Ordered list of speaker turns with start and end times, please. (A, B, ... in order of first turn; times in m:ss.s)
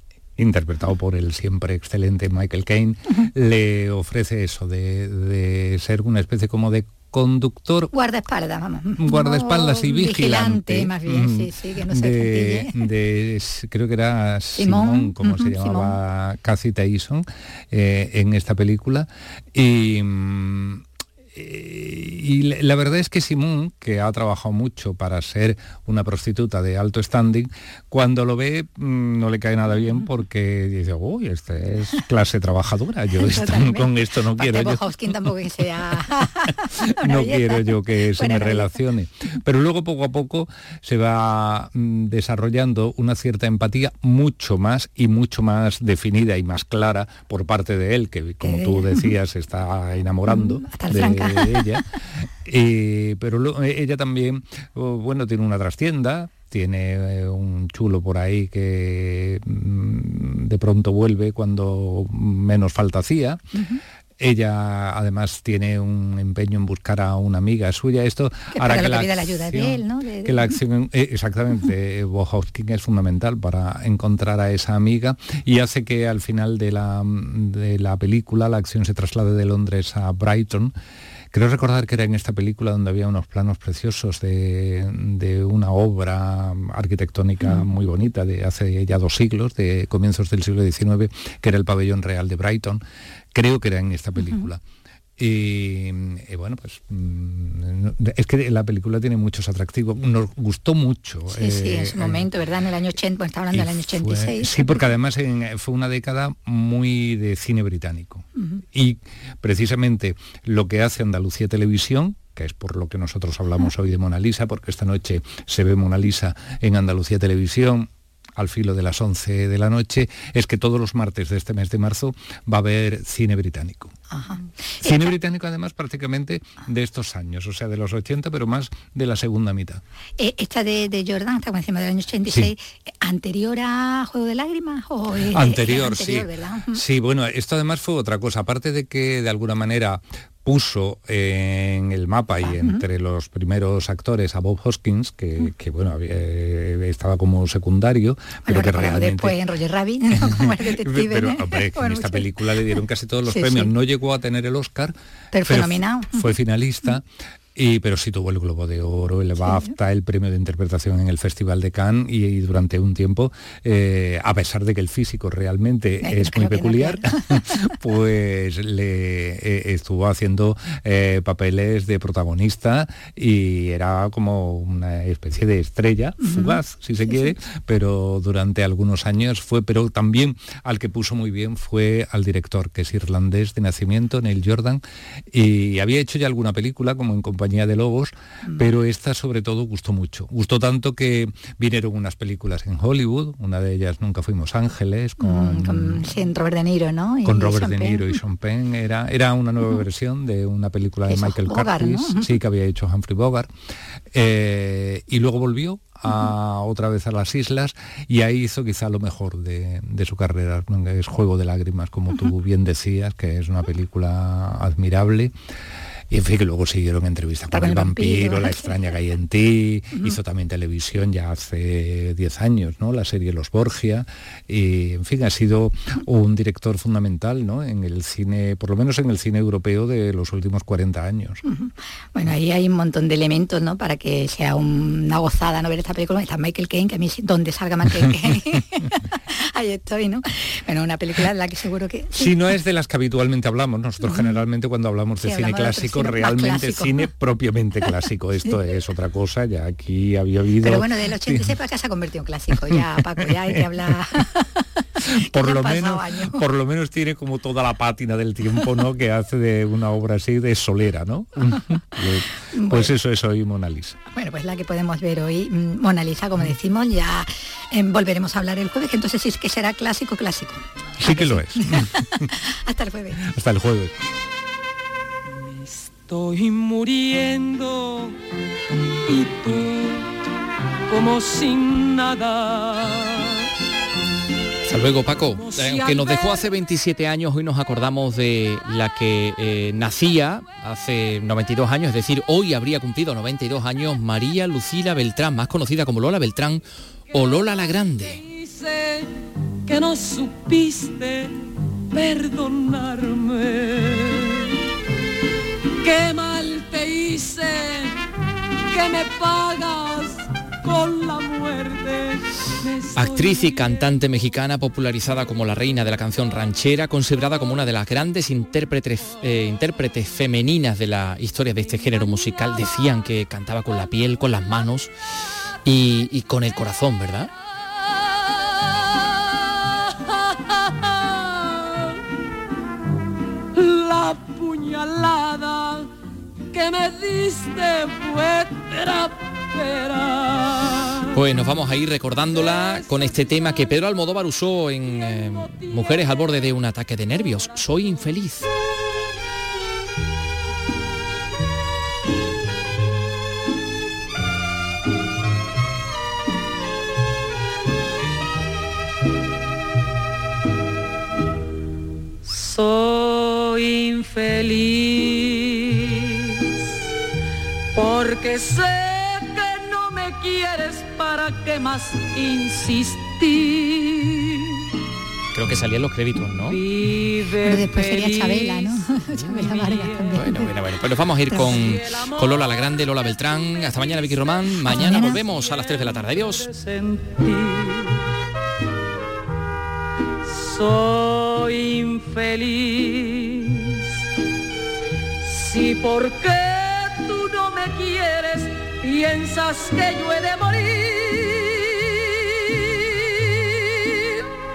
0:00.4-0:07.9 A
0:07.9-0:12.9 B
0:09.0-0:35.3 A
0:14.6-0:16.0 B
0:33.2-0:38.8 B
0:37.0-0:51.8 A
0:48.4-0:49.0 B
0:50.3-0:51.8 B
0:52.4-1:03.4 A
1:03.5-1:03.8 B
1:04.2-1:20.7 A
1:08.5-1:10.6 B
1:21.3-1:32.8 A
1:33.3-1:34.6 A
1:35.2-1:42.3 A
1:41.3-1:44.8 B
1:43.5-2:03.9 A
2:04.1-2:04.9 B
2:04.8-2:09.8 A
2:10.2-2:16.8 B
2:15.2-2:29.4 A
2:22.4-2:22.8 B
2:28.4-2:33.7 B
2:30.2-2:37.0 A
2:35.3-2:36.2 B
2:37.5-3:16.2 A
2:39.4-2:39.7 B
2:46.0-2:47.2 B
2:56.2-2:57.3 B
3:15.2-3:18.1 B
3:17.2-3:23.5 A
3:21.1-3:22.3 B
3:24.1-3:35.3 A
3:36.1-3:51.4 A
3:37.5-3:38.9 B
3:51.4-4:02.4 B
4:02.1-4:11.6 A
4:04.0-4:04.4 B
4:05.2-4:07.1 B
4:10.6-4:16.4 B
4:12.5-4:14.0 A
4:15.2-4:24.0 A
4:22.5-4:22.9 B
4:24.1-4:33.2 B
4:31.0-4:32.3 A
4:33.2-4:34.0 A
4:35.2-4:38.2 C
4:39.1-4:40.1 C
4:40.9-4:43.4 C
4:44.6-4:58.2 D
4:45.2-4:46.5 C
4:57.1-4:59.1 C
4:59.6-5:01.3 C
5:01.9-5:04.5 C
5:05.8-5:08.0 C
5:08.7-5:13.8 C
5:13.0-5:24.9 D
5:25.6-5:27.3 D
5:28.8-5:32.0 C
5:33.5-5:35.9 C
5:36.5-5:41.2 C
5:41.1-5:48.5 D
5:42.6-5:43.6 C
6:02.2-6:06.0 C
6:07.7-6:14.5 C
6:15.3-6:16.6 D
6:16.4-6:20.2 C
6:17.4-6:20.6 B
6:20.1-6:26.5 D
6:21.3-6:21.6 B
6:21.4-6:24.3 C
6:24.6-6:25.2 B
6:24.9-6:28.0 C
6:30.2-6:33.8 C
6:35.2-6:44.2 C